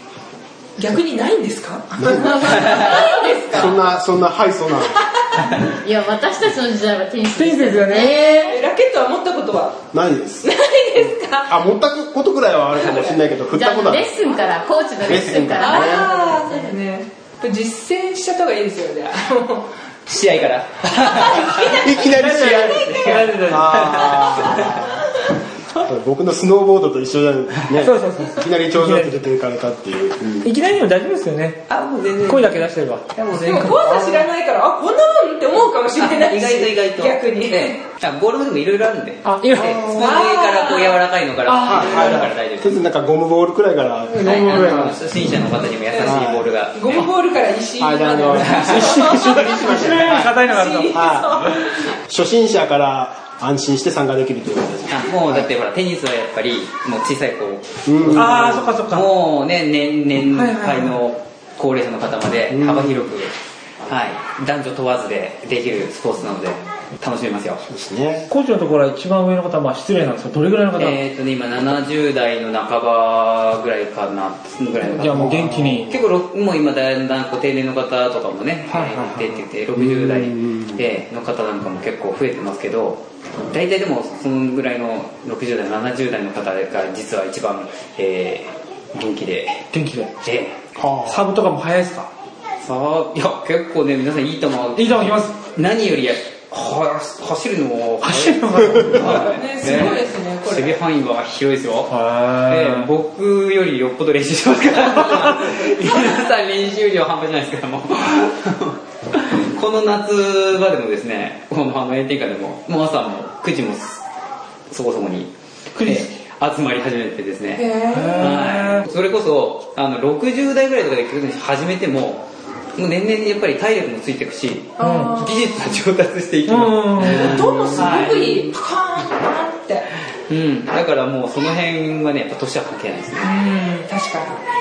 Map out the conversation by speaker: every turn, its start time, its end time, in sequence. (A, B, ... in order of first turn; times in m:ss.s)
0:00.8-0:03.8 A
0:02.0-0:02.9 B
0:02.4-0:03.0 C
0:02.7-0:03.6 D
0:03.5-0:05.0 B
0:05.1-0:05.5 A
0:05.5-0:08.6 D
0:07.3-0:08.3 E
0:08.3-0:09.8 A
0:09.9-0:10.5 B
0:10.4-0:11.6 A
0:11.4-0:14.2 B
0:12.8-0:13.2 A
0:13.5-0:16.2 D
0:14.2-0:14.5 A
0:15.0-0:16.1 B
0:15.6-0:19.7 A
0:20.1-0:22.0 C
0:21.1-0:25.8 A
0:21.7-0:23.0 B
0:22.2-0:24.4 E
0:23.5-0:25.0 B
0:23.7-0:24.8 C
0:25.8-0:30.5 B
0:27.7-0:29.2 E
0:30.4-0:31.6 E
0:31.7-0:33.8 C
0:32.3-0:33.1 E
0:33.4-0:37.8 A
0:33.8-0:34.3 B
0:36.0-0:42.8 C
0:39.2-0:39.9 E
0:39.6-0:40.0 B
0:39.9-0:41.0 A
0:41.5-0:42.3 E
0:41.6-0:45.0 B
0:44.2-0:45.0 E
0:44.2-0:47.1 C
0:45.6-0:51.9 A
0:46.0-0:46.5 B
0:47.8-0:51.3 B
0:48.4-0:49.0 C
0:48.7-0:51.6 E
0:51.9-0:55.5 B
0:54.9-1:03.3 C
0:57.9-0:58.8 B
0:58.2-0:59.1 E
1:00.3-1:01.0 E
1:02.5-1:03.1 B
1:03.9-1:07.6 C
1:07.6-1:08.3 B
1:08.3-1:11.0 E
1:10.8-1:15.3 C
1:14.8-1:15.9 E
1:15.0-1:15.9 B
1:15.9-1:29.7 C
1:18.7-1:19.4 E
1:19.8-1:20.8 B
1:29.7-1:30.2 E
1:30.2-1:30.6 C
1:30.8-1:31.2 B
1:31.0-1:32.1 E
1:32.6-1:54.0 C
1:34.8-1:35.4 E
1:38.0-1:39.3 E
1:39.2-1:40.8 A
1:41.9-1:42.9 E
1:54.7-2:08.5 C
1:55.8-1:56.1 E
1:57.6-1:58.4 A
1:57.9-1:58.9 E
2:04.8-2:05.4 A
2:04.8-2:05.3 E
2:06.5-2:07.4 E
2:07.0-2:09.9 A
2:10.2-2:13.4 C
2:13.2-2:14.4 A